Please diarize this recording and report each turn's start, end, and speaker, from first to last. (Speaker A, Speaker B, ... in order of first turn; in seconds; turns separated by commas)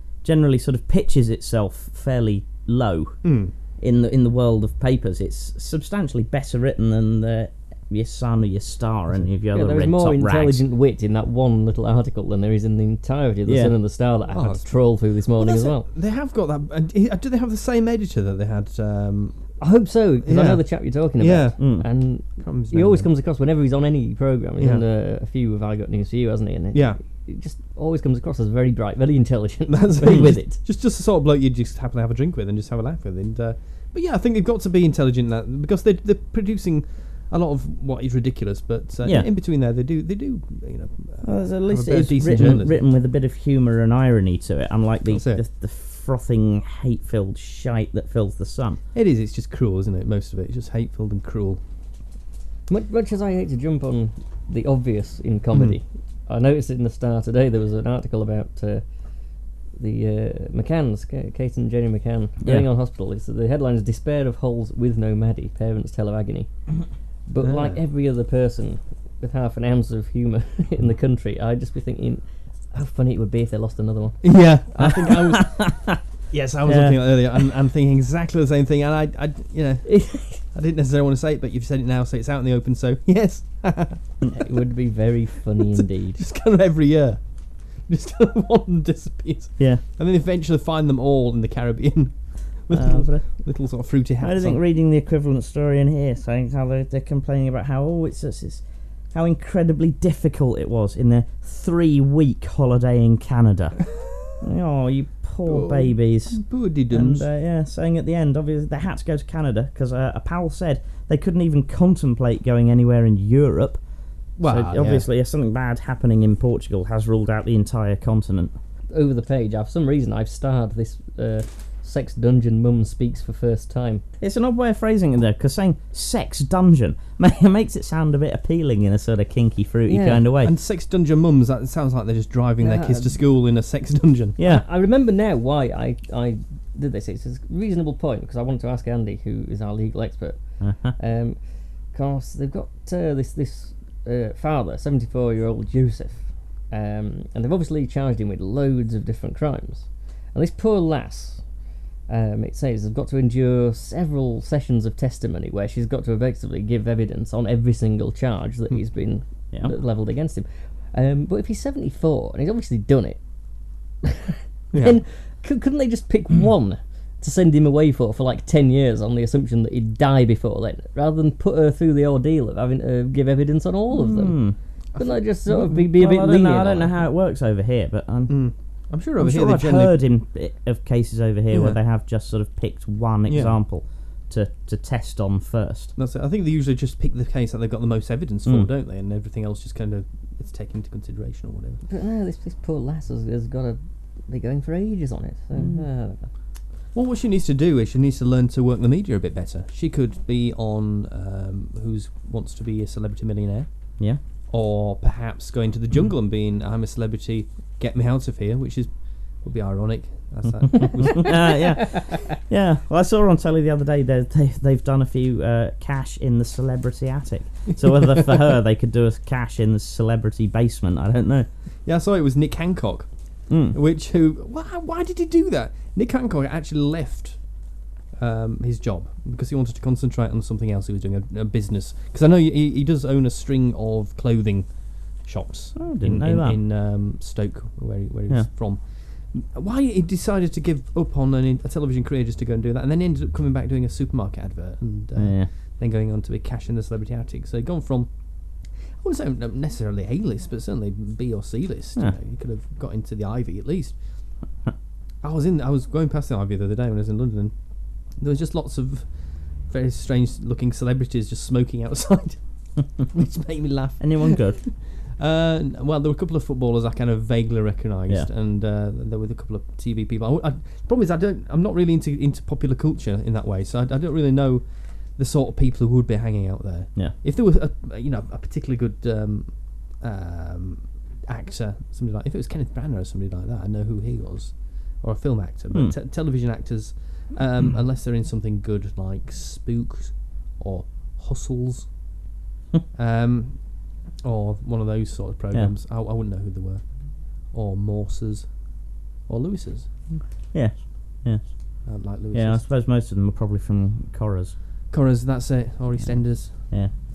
Speaker A: 0.2-3.2, Speaker B: 3.2-3.5, Speaker A: 3.8-10.6, Speaker C: 9.5-15.9, Speaker A: 13.5-13.7, Speaker B: 14.3-14.8, Speaker B: 15.3-19.4, Speaker C: 19.6-30.6, Speaker B: 20.2-20.6, Speaker B: 21.2-21.6, Speaker A: 21.6-21.9, Speaker B: 22.4-23.1, Speaker B: 24.6-24.8, Speaker B: 26.7-27.0, Speaker B: 29.7-42.8, Speaker A: 41.2-48.8, Speaker B: 45.1-45.4, Speaker B: 48.9-51.6, Speaker C: 52.7-58.8, Speaker C: 59.8-66.5, Speaker C: 67.3-74.3, Speaker B: 67.4-67.8, Speaker B: 74.2-75.7, Speaker A: 75.1-76.0, Speaker B: 76.3-84.0, Speaker A: 76.7-77.1, Speaker C: 79.8-80.4, Speaker C: 84.3-86.2, Speaker B: 85.6-87.2, Speaker B: 87.9-94.6, Speaker A: 92.7-93.2, Speaker A: 94.2-103.8, Speaker A: 104.4-113.8, Speaker B: 105.4-107.3, Speaker B: 114.4-115.1, Speaker A: 114.4-118.5, Speaker C: 118.9-124.0, Speaker A: 124.2-130.5, Speaker C: 129.9-130.2, Speaker B: 130.4-134.4, Speaker C: 132.6-133.1, Speaker A: 134.4-134.6, Speaker C: 134.4-141.4, Speaker A: 140.6-140.9, Speaker C: 141.9-151.4, Speaker C: 152.1-163.2, Speaker C: 164.0-174.4, Speaker B: 164.7-165.0, Speaker A: 173.9-174.6, Speaker C: 175.0-176.9, Speaker A: 175.5-178.4, Speaker B: 178.3-180.0, Speaker A: 179.2-185.9, Speaker B: 181.5-181.8, Speaker B: 183.3-183.6, Speaker B: 186.0-191.8, Speaker C: 191.9-196.3, Speaker A: 195.6-195.8, Speaker B: 196.9-203.7, Speaker B: 204.5-211.6, Speaker A: 211.0-221.5, Speaker B: 217.8-218.3, Speaker B: 221.8-223.1, Speaker A: 223.5-223.8, Speaker B: 223.7-227.4, Speaker B: 228.2-234.7, Speaker B: 235.2-238.8, Speaker A: 235.8-236.6, Speaker B: 239.3-248.1, Speaker A: 245.2-245.5, Speaker B: 249.0-253.9, Speaker B: 255.2-257.5, Speaker B: 258.2-259.1, Speaker B: 259.7-262.4, Speaker B: 263.0-274.6, Speaker A: 264.0-264.6, Speaker B: 275.2-291.9, Speaker B: 292.9-293.6, Speaker B: 294.2-296.8, Speaker B: 297.5-298.5, Speaker B: 299.3-299.9, Speaker A: 300.5-301.4, Speaker B: 301.9-302.6, Speaker A: 302.3-304.5, Speaker B: 304.9-306.5